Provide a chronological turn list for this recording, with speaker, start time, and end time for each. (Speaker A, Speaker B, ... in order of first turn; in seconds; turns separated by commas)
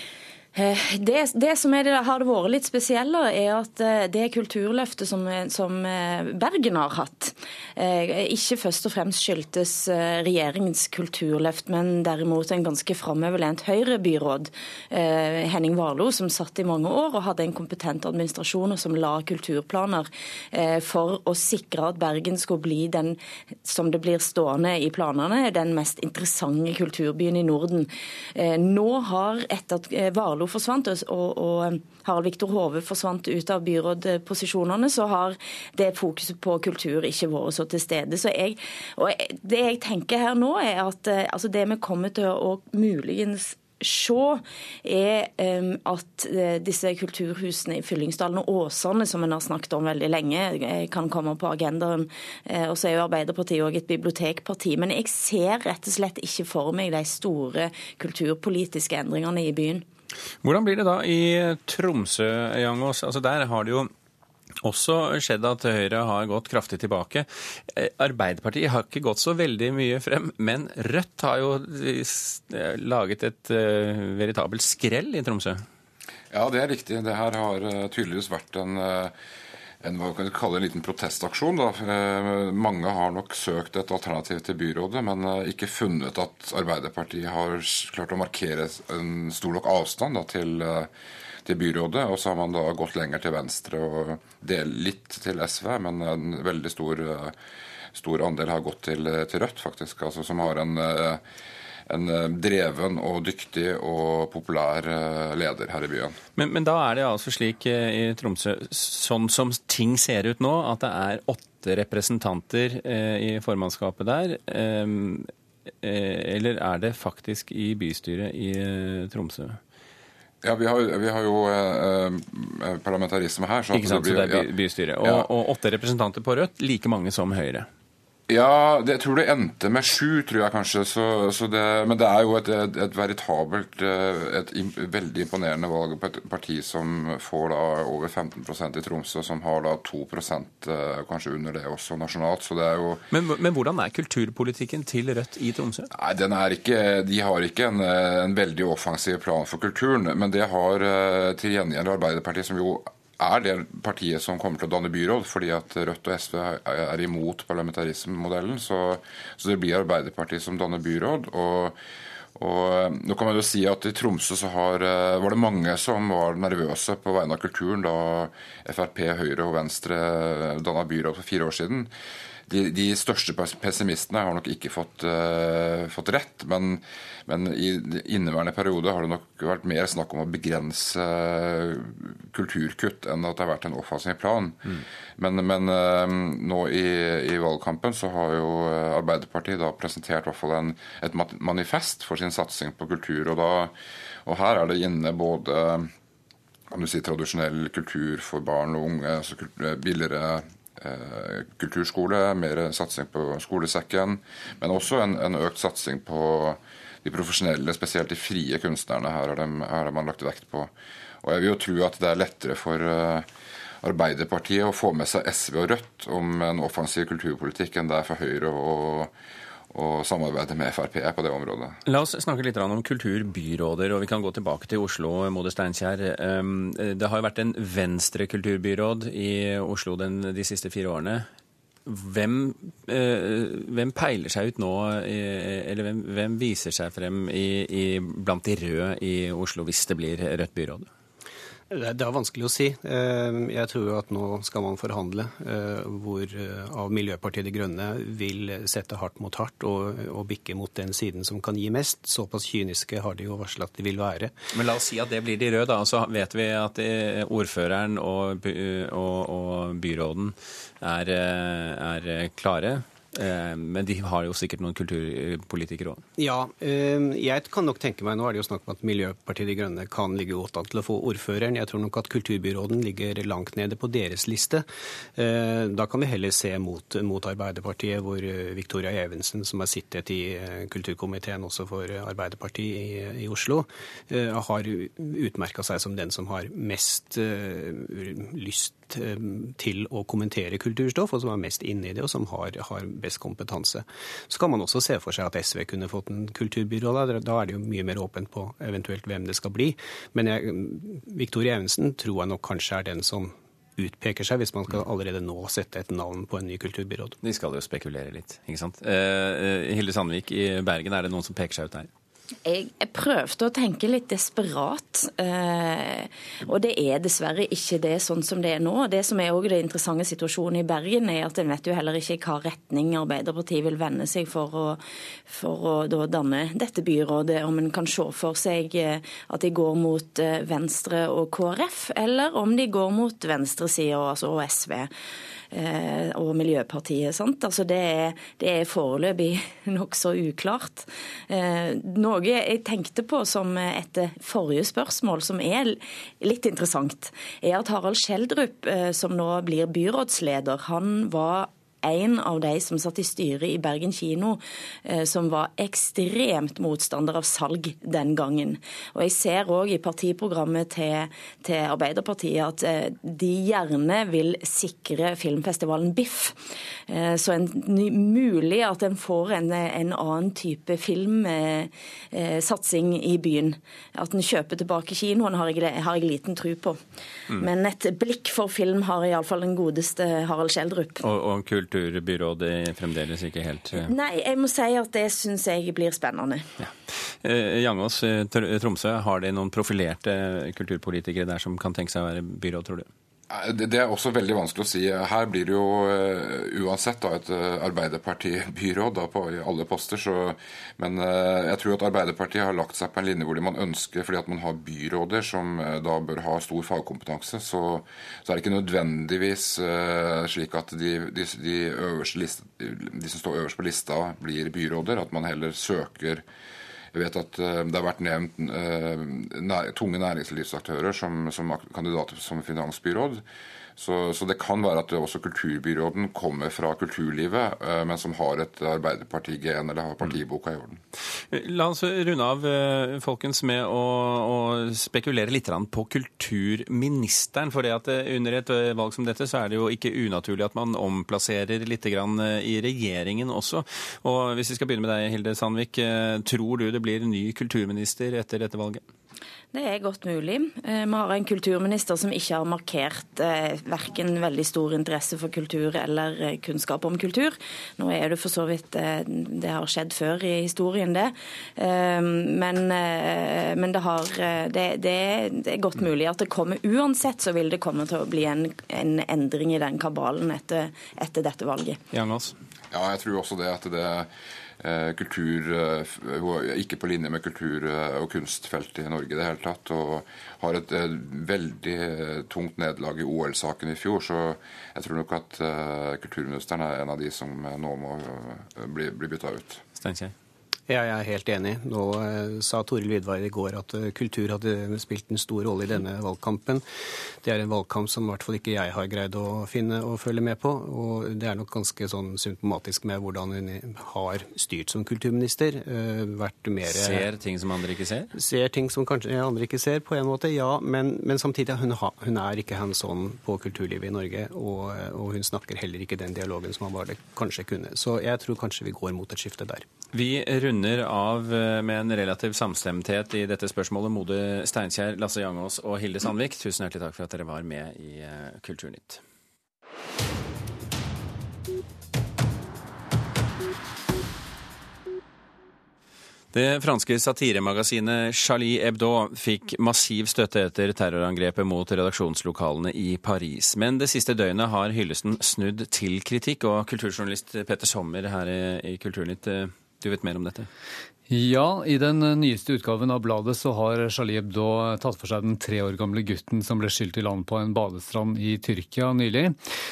Speaker A: 0.6-59.9, Speaker B: 60.4-63.9, Speaker B: 64.6-75.6, Speaker C: 76.3-79.1, Speaker C: 79.8-90.9, Speaker C: 91.5-97.3, Speaker C: 98.0-101.2, Speaker C: 101.9-106.2, Speaker B: 106.4-115.3, Speaker B: 115.8-119.6, Speaker C: 120.4-124.5, Speaker B: 123.7-127.7, Speaker C: 128.3-143.0, Speaker B: 143.1-145.9, Speaker C: 145.9-161.8, Speaker C: 162.4-171.9, Speaker C: 172.5-193.7, Speaker C: 194.3-195.9, Speaker C: 196.7-210.7, Speaker C: 211.2-213.3, Speaker C: 213.8-219.1, Speaker C: 219.7-221.8, Speaker B: 221.9-231.3, Speaker B: 231.8-240.9, Speaker D: 241.7-254.3, Speaker B: 254.5-266.0, Speaker D: 266.2-274.6, Speaker D: 275.2-307.2, Speaker B: 307.2-311.9, Speaker A: 312.5-334.9, Speaker A: 335.5-366.4, Speaker A: 366.9-376.8, Speaker A: 377.4-381.0, Speaker B: 381.0-383.9, Speaker A: 383.8-386.5, Speaker B: 386.6-392.9, Speaker C: 393.3-416.2, Speaker C: 416.9-423.2, Speaker C: 423.8-430.8, Speaker B: 431.3-448.8, Speaker A: 449.5-471.8, Speaker B: 471.9-472.4, Speaker C: 472.7-489.6, Speaker B: 489.8-490.1, Speaker D: 490.7-496.6, Speaker D: 497.2-507.1, Speaker B: 506.7-508.1, Speaker D: 508.1-519.7, Speaker B: 519.9-529.0, Speaker B: 536.3-550.5, Speaker E: 551.1-559.4